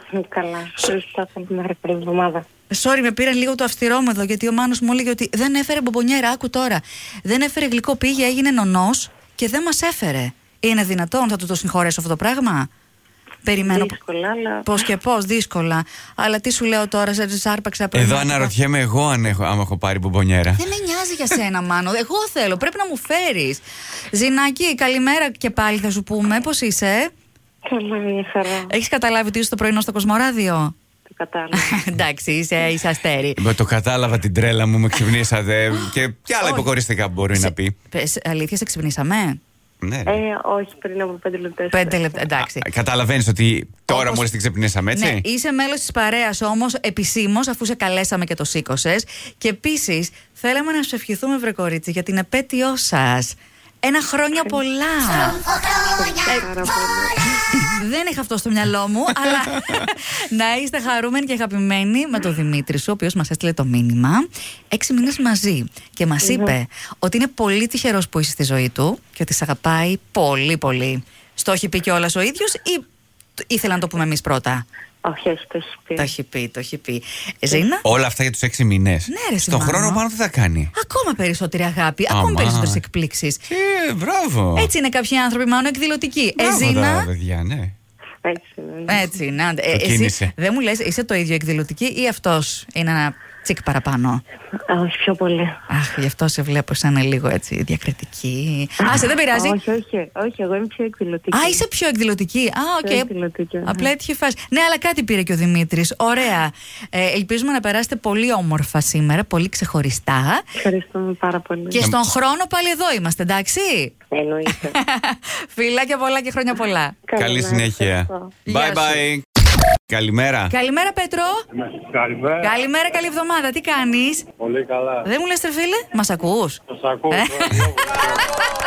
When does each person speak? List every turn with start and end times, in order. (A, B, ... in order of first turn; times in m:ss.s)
0:00.1-0:02.4 A
0:02.7-0:12.7 B
0:13.4-0:14.0 B
0:13.6-0:14.7 A
0:14.7-0:18.5 B
0:17.9-0:20.7 C
0:20.6-0:27.1 B
0:27.7-0:28.7 A
0:28.7-0:30.7 B
0:31.1-0:31.9 A
0:31.6-0:33.4 B
0:33.4-0:37.7 C
0:36.4-0:36.7 B
0:37.3-0:39.4 B
0:39.8-0:40.2 C
0:40.1-0:42.2 A
0:41.7-0:42.7 B
0:42.4-0:45.2 C
0:43.9-0:44.3 B
0:44.9-0:55.4 B
0:55.8-0:57.3 A
0:57.5-1:12.8 B
1:06.2-1:06.6 A
1:13.4-1:14.6 B
1:15.0-1:16.1 A
1:16.0-1:17.8 B
1:17.8-1:20.7 C
1:19.1-1:20.0 B
1:20.8-1:23.4 B
1:22.1-1:22.8 C
1:23.5-1:24.7 C
1:24.6-1:27.1 B
1:26.4-1:27.7 C
1:28.2-1:29.1 A
1:28.9-1:34.2 B
1:29.7-1:30.3 C
1:34.7-1:35.6 A
1:35.7-1:39.6 B
1:38.8-1:41.6 A
1:41.3-1:43.1 B
1:42.8-1:43.9 A
1:43.7-1:50.4 B
1:50.6-1:51.8 A
1:51.7-1:53.9 B
1:54.1-1:54.8 A
1:54.7-1:57.0 B
1:57.1-1:58.3 A
1:57.2-1:59.2 C
1:58.5-1:59.0 B
1:59.9-2:00.5 C
2:00.5-2:01.4 B
2:01.5-2:02.6 D
2:02.4-2:04.3 B
2:04.3-2:05.1 D
2:05.1-2:06.6 B
2:06.7-2:08.2 D
2:07.1-2:07.6 B